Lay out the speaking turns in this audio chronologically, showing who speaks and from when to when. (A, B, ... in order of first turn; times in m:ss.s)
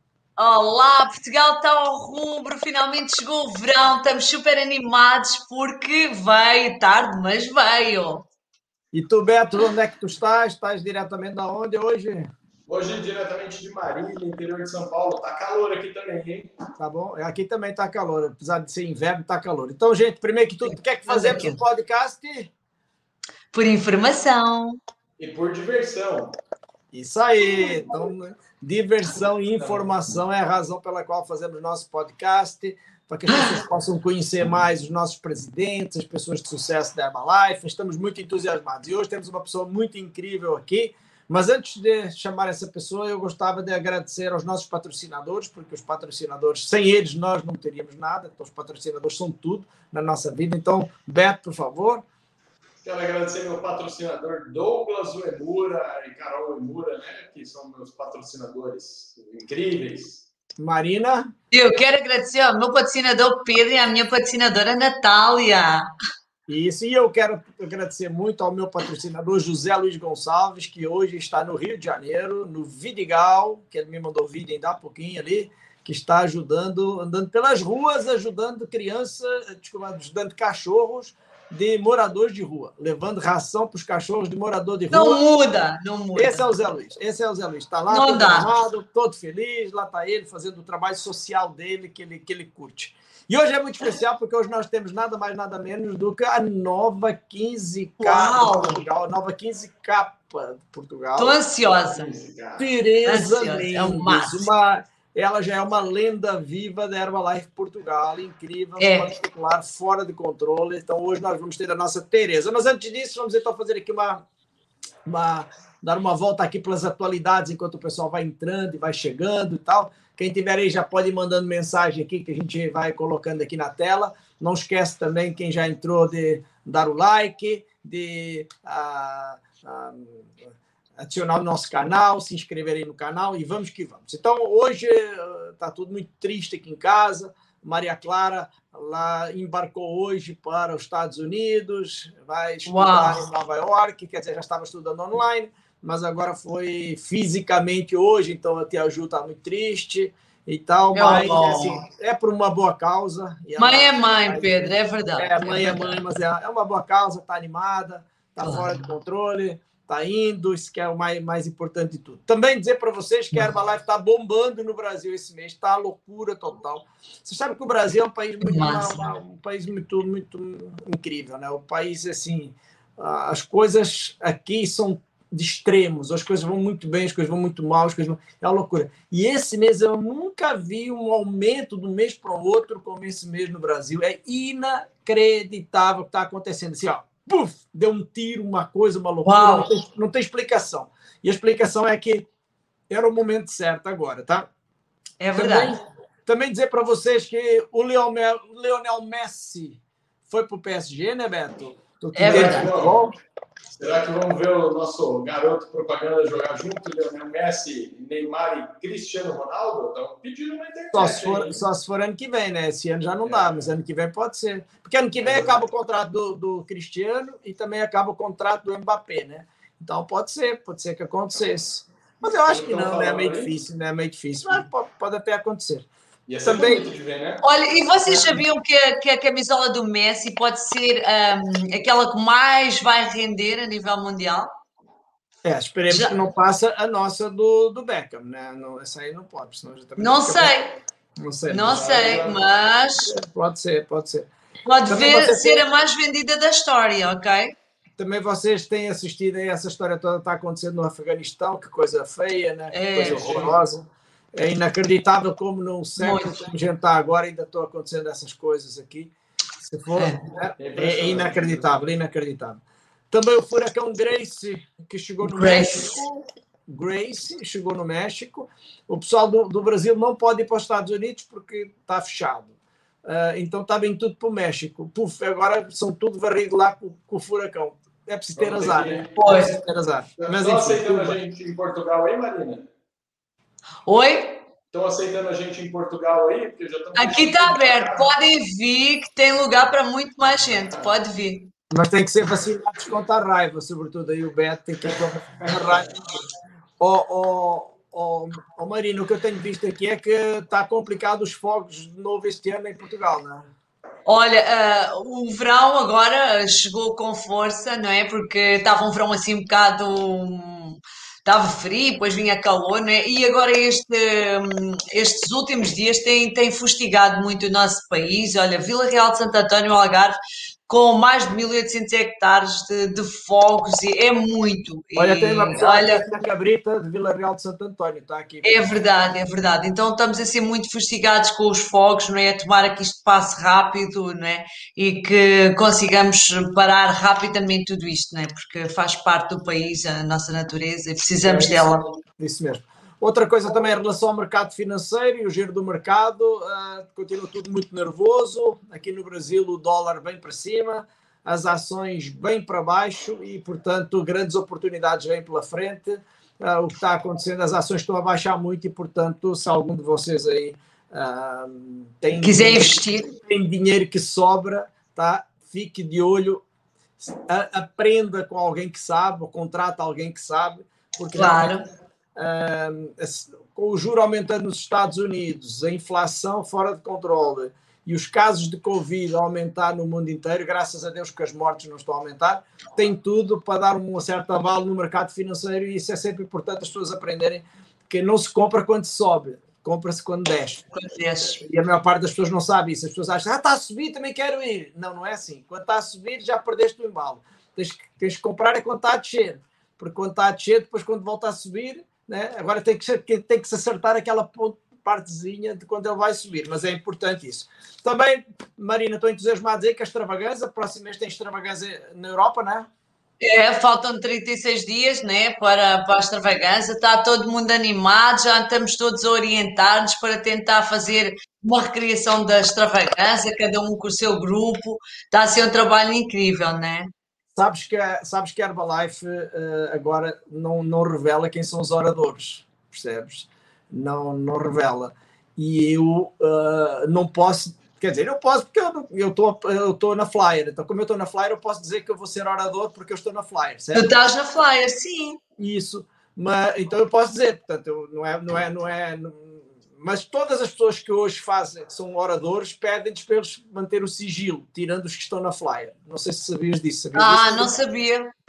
0:00.4-0:08.3 A
0:08.9-0:12.3 B
0:12.7-0:16.5 C
0:16.8-0:22.5 B
0:21.0-0:21.6 A
0:23.5-0:24.8 A
0:25.2-0:26.4 C
0:26.9-0:52.0 B
0:29.6-0:29.8 C
0:52.8-1:00.2 C
1:00.6-1:01.3 B
1:01.5-1:05.9 A
1:06.5-1:25.3 B
1:24.9-1:26.5 A
1:26.1-1:41.4 B
1:27.9-1:28.5 A
1:38.0-1:38.8 A
1:41.2-1:42.1 A
1:41.7-1:42.7 C
1:42.6-1:54.2 B
1:43.0-1:44.5 A
1:48.8-1:49.1 A
1:55.0-3:12.3 B
2:22.6-2:23.3 A
2:30.9-2:31.8 A
2:33.6-2:36.0 A
2:38.4-2:38.9 A
2:48.4-2:49.1 A
3:09.2-3:09.7 A
3:12.9-3:14.5 B
3:15.2-3:15.8 A
3:15.3-3:23.1 B
3:22.1-3:22.7 A
3:22.2-3:23.0 C
3:23.8-3:31.6 C
3:30.9-3:45.9 B
3:33.2-3:33.7 C
3:35.2-3:35.6 C
3:42.4-3:43.5 C
3:46.3-3:47.4 C
3:46.4-3:46.9 B
3:47.4-3:54.5 A
3:48.0-3:48.4 B
3:55.4-4:00.5 B
3:55.9-3:56.2 A
4:00.0-4:00.8 A
4:01.2-4:02.1 B
4:01.5-4:03.1 A
4:01.7-4:02.4 C
4:03.0-4:04.3 B
4:04.6-4:07.5 A
4:04.9-4:05.6 B
4:08.0-4:41.2 B
4:12.7-4:13.5 A
4:13.0-4:13.6 C
4:16.0-4:16.5 A
4:20.0-4:20.2 A
4:20.6-4:21.8 C
4:25.2-4:26.0 A
4:38.4-4:39.1 C
4:39.2-4:39.6 A
4:40.2-4:42.7 C
4:43.8-4:44.4 A
4:44.7-4:48.1 C
4:46.9-4:51.5 A
4:51.7-4:56.2 B
4:54.9-4:55.8 C
4:56.8-5:03.5 B
5:04.0-5:26.0 A
5:25.0-5:28.7 B
5:28.4-5:41.8 A
5:41.2-5:41.8 C
5:42.2-6:06.4 B
6:02.2-6:03.1 A
6:07.0-6:11.6 B
6:11.1-6:11.6 A
6:12.2-6:30.6 B
6:30.7-6:31.4 A
6:31.2-6:52.7 B
6:53.2-7:06.9 A
7:07.3-7:24.0 B
7:23.7-7:25.2 A
7:25.4-7:37.5 B
7:36.9-7:38.1 A